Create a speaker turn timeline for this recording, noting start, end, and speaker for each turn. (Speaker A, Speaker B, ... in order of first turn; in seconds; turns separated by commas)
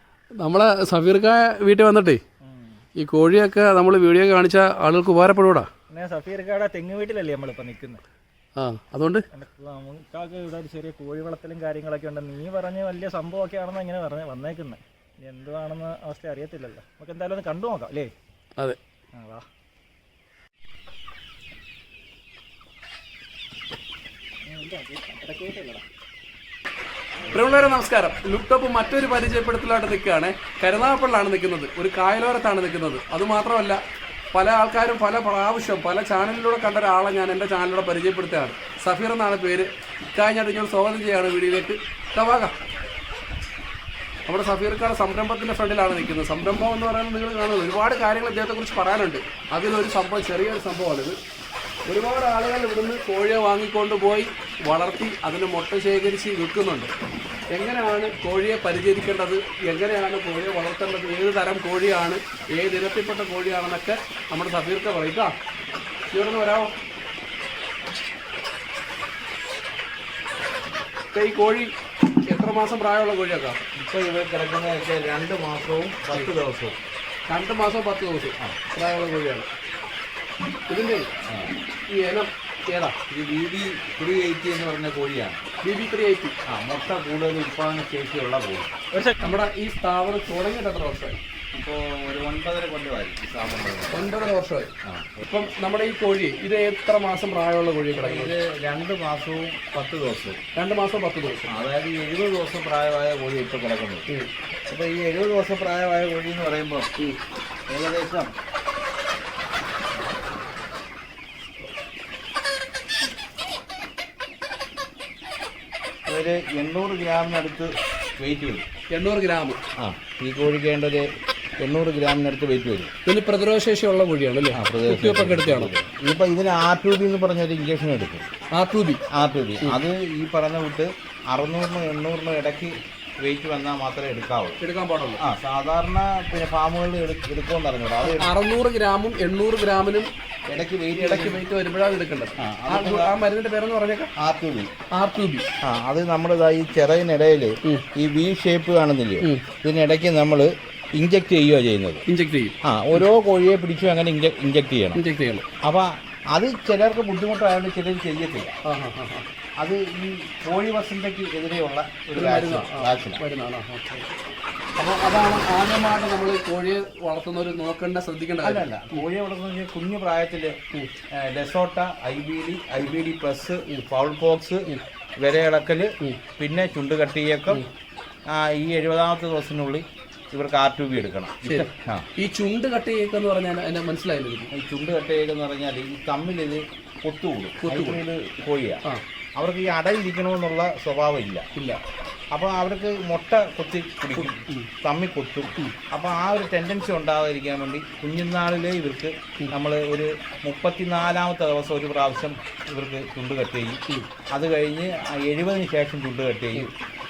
Speaker A: 0.4-2.2, Speaker B: 2.4-2.8, Speaker A: 3.0-5.7, Speaker B: 5.9-8.0, Speaker A: 8.6-9.2, Speaker B: 9.3-18.1, Speaker B: 19.2-19.4, Speaker B: 24.5-25.8, Speaker A: 27.3-33.8, Speaker A: 34.3-42.5, Speaker A: 44.3-51.2, Speaker A: 51.9-56.9, Speaker A: 57.5-65.3, Speaker A: 66.1-66.7, Speaker A: 71.1-71.7, Speaker A: 72.3-73.6, Speaker C: 73.8-76.8, Speaker A: 77.3-79.5, Speaker A: 80.7-81.1, Speaker C: 81.3-81.5, Speaker A: 81.9-83.0, Speaker C: 83.1-85.4, Speaker A: 85.6-86.4, Speaker C: 86.5-88.8, Speaker A: 89.2-91.2, Speaker C: 91.5-94.2, Speaker A: 93.9-94.7, Speaker C: 94.8-95.2, Speaker A: 95.2-98.3, Speaker C: 98.0-100.4, Speaker A: 100.5-101.6, Speaker C: 101.5-104.1, Speaker C: 104.7-106.9, Speaker C: 107.7-108.3, Speaker C: 116.1-118.6, Speaker A: 118.9-119.6, Speaker C: 119.8-122.9, Speaker A: 123.0-125.7, Speaker C: 124.5-128.3, Speaker A: 128.5-129.0, Speaker C: 129.1-134.6, Speaker A: 134.6-135.2, Speaker C: 135.2-138.3, Speaker A: 138.0-140.1, Speaker C: 140.5-141.4, Speaker A: 140.9-144.1, Speaker C: 142.4-143.2, Speaker C: 144.2-144.7, Speaker A: 144.9-145.5, Speaker C: 145.6-152.1, Speaker A: 152.1-153.0, Speaker C: 152.7-155.0, Speaker A: 154.9-155.5, Speaker C: 155.6-158.6, Speaker A: 158.7-159.3, Speaker C: 159.6-163.2, Speaker A: 162.1-164.1, Speaker A: 164.8-169.0, Speaker C: 168.4-170.5, Speaker C: 171.1-174.7, Speaker C: 175.2-177.6, Speaker C: 178.3-182.1, Speaker A: 181.4-184.5, Speaker C: 184.5-188.8, Speaker A: 187.6-188.0, Speaker C: 189.4-191.5, Speaker C: 192.3-203.8, Speaker A: 194.2-194.7, Speaker C: 204.3-206.7